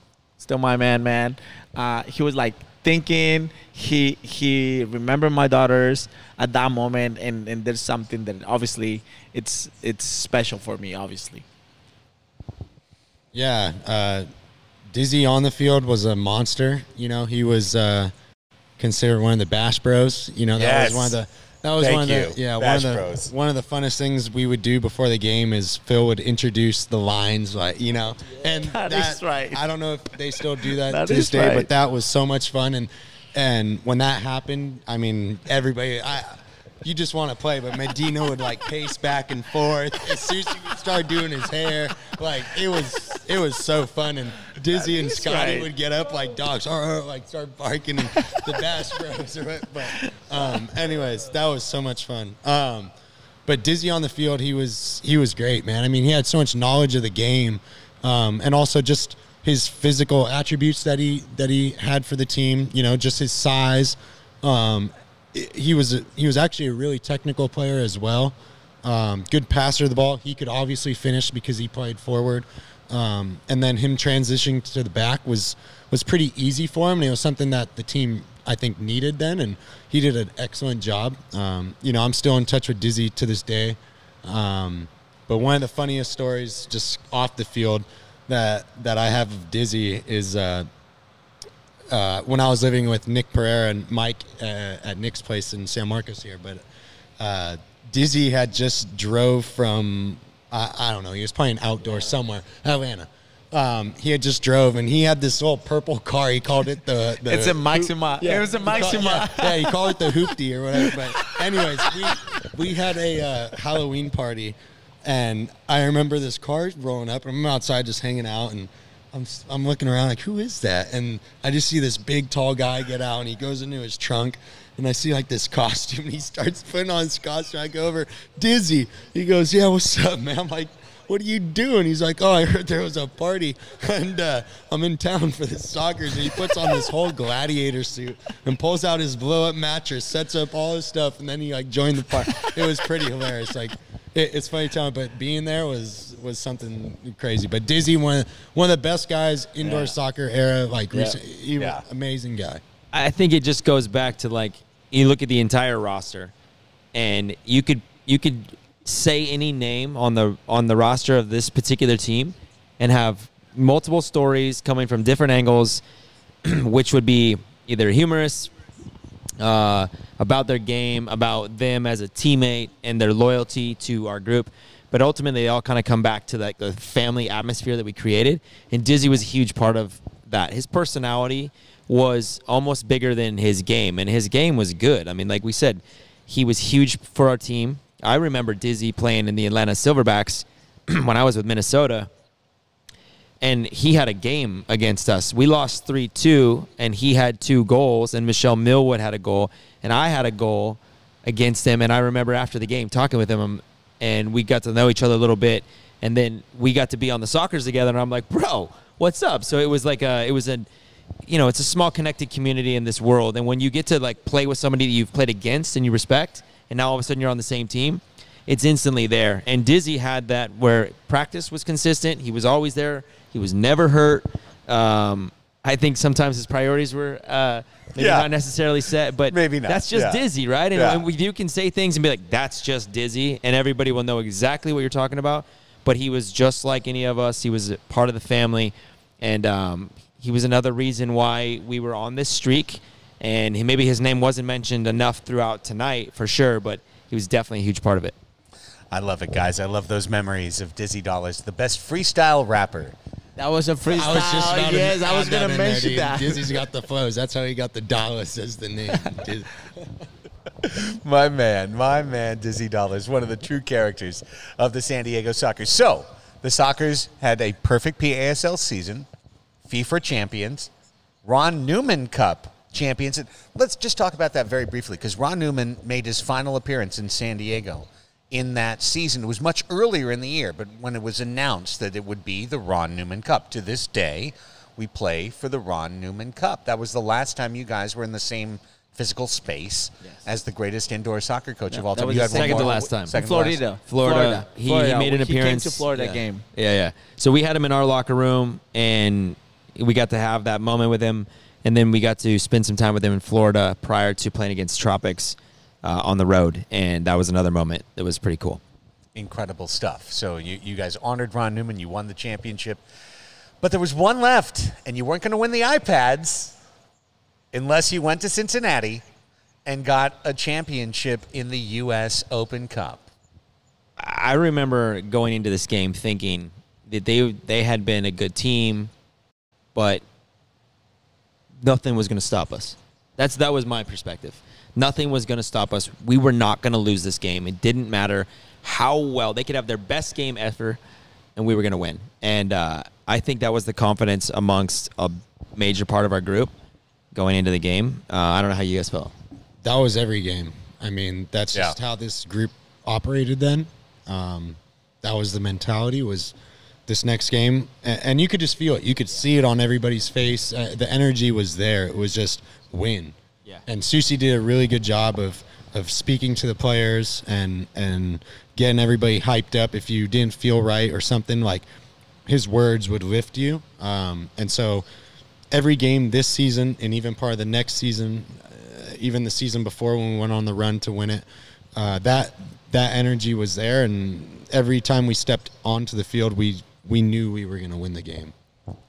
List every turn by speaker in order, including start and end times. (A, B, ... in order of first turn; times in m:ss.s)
0:00.4-0:11.4 A
0:13.3-0:14.3 B
0:14.9-0:18.1 B
0:18.8-0:52.9 B
0:20.6-0:21.2 C
0:21.8-0:23.3 C
0:28.4-0:29.6 A
0:30.6-0:31.7 A
0:44.7-0:45.7 A
0:53.4-1:30.7 B
1:31.9-1:36.6 B
1:37.2-2:32.6 B
1:47.2-1:49.9 A
2:32.9-2:36.3 D
2:36.9-2:45.8 D
2:46.4-2:48.5 D
2:49.4-3:12.1 D
3:13.4-3:30.7 D
3:31.2-4:08.1 D
3:48.0-3:48.3 C
3:49.3-3:50.2 C
3:50.7-3:51.0 C
4:08.9-4:12.9 C
4:13.4-4:16.6 A
4:13.9-4:19.5 B
4:20.6-4:29.1 C
4:29.7-4:30.7 C
4:31.2-4:53.6 C
4:51.7-4:56.4 A
4:52.3-4:53.2 D
4:53.8-5:08.6 D
5:09.1-5:12.8 C
5:13.6-5:16.5 C
5:17.5-5:19.0 C
5:19.6-5:23.0 C
5:24.0-5:28.9 D
5:29.7-5:30.0 D
5:31.6-5:40.8 D
5:41.4-5:46.5 D
5:47.1-5:49.1 D
5:49.6-5:56.3 B
5:56.9-6:03.1 B
6:03.7-6:11.6 B
6:12.2-6:14.8 B
6:15.5-6:28.3 B